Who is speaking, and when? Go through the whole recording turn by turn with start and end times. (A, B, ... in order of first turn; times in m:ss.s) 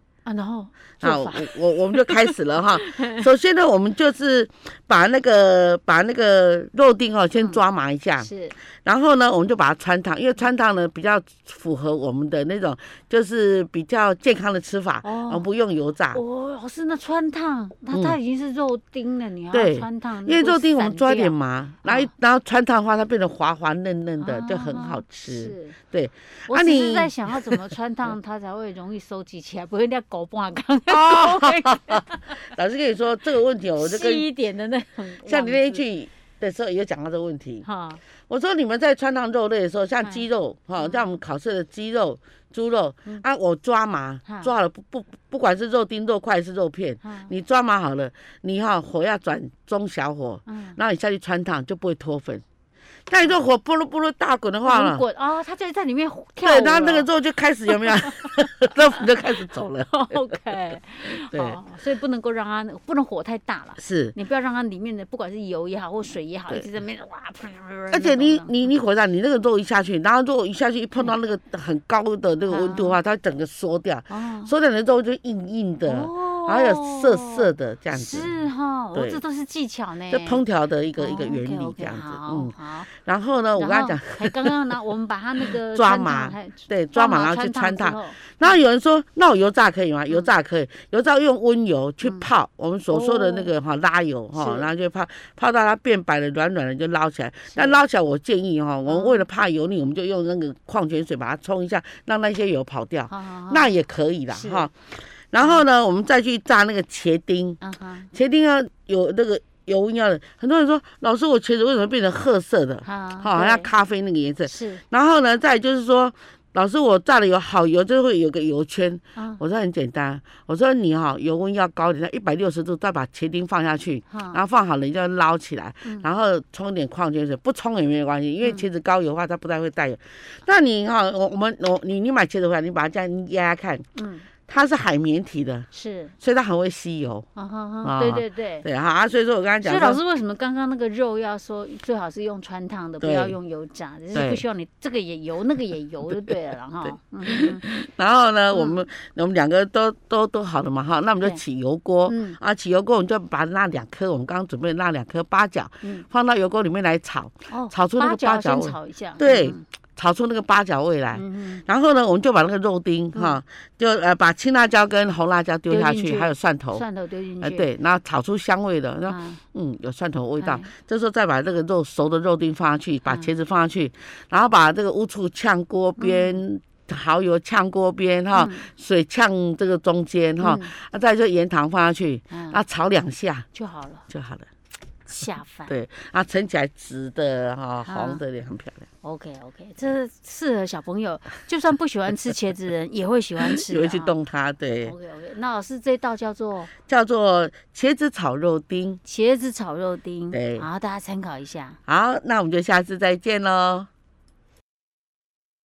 0:00.2-0:03.2 A
0:01.0-0:16.2 B
0:07.4-0:07.6 A
0:08.2-0:08.6 A
0:15.0-0:15.4 A
0:16.1-0:22.1 A
0:17.9-0:18.2 B
0:19.5-0:27.6 B
0:24.2-0:25.8 A
0:26.5-0:32.4 A
0:30.9-0:34.3 B
0:33.8-0:35.8 A
0:35.2-0:37.7 B
0:37.6-0:38.0 A
0:38.3-0:52.4 B
0:40.8-0:41.1 A
0:47.0-0:47.3 A
0:50.5-0:50.8 A
0:53.1-0:55.0 B
0:54.6-0:57.1 A
0:56.4-1:00.4 B
0:57.7-0:58.3 A
0:59.4-1:08.7 A
1:01.1-1:01.6 B
1:03.8-1:04.1 B
1:07.9-1:19.2 B
1:12.5-1:13.0 A
1:14.1-1:14.5 A
1:15.8-1:20.4 A
1:20.1-1:24.6 B
1:21.0-1:22.9 A
1:23.6-1:28.6 A
1:25.5-1:47.6 B
1:32.9-1:33.5 A
1:34.3-1:34.7 A
1:37.5-1:37.8 A
1:38.9-1:39.2 A
1:43.1-1:43.7 A
1:44.3-1:44.7 A
1:45.4-1:45.6 A
1:47.6-1:48.1 A
1:48.1-2:13.8 B
1:52.8-1:53.7 A
1:54.4-1:54.8 A
1:59.2-1:59.4 A
2:04.1-2:04.4 A
2:14.0-2:14.3 A
2:14.4-2:15.7 B
2:15.7-2:16.2 A
2:16.2-2:17.3 B
2:17.3-2:18.7 A
2:17.8-2:20.0 B
2:19.6-2:27.6 A
2:23.0-2:23.4 B
2:24.1-2:24.4 B
2:26.8-2:46.8 B
2:28.5-2:28.8 A
2:32.1-2:32.4 A
2:35.8-2:36.1 A
2:37.5-2:39.6 A
2:41.1-2:41.6 A
2:43.1-2:43.4 A
2:45.7-2:47.7 A
2:47.4-3:03.5 B
2:49.1-2:49.4 A
2:50.4-2:50.7 A
2:56.0-2:56.4 A
2:58.3-2:58.6 A
3:00.4-3:00.7 A
3:02.3-3:02.6 A
3:03.5-3:04.1 A
3:04.1-3:04.5 B
3:05.1-3:05.7 A
3:05.7-3:08.9 B
3:07.8-3:08.2 A
3:09.0-3:14.1 A
3:13.4-3:14.9 B
3:14.8-3:16.7 A
3:16.8-3:19.0 B
3:19.0-3:21.8 A
3:20.3-3:20.7 B
3:21.9-3:23.9 B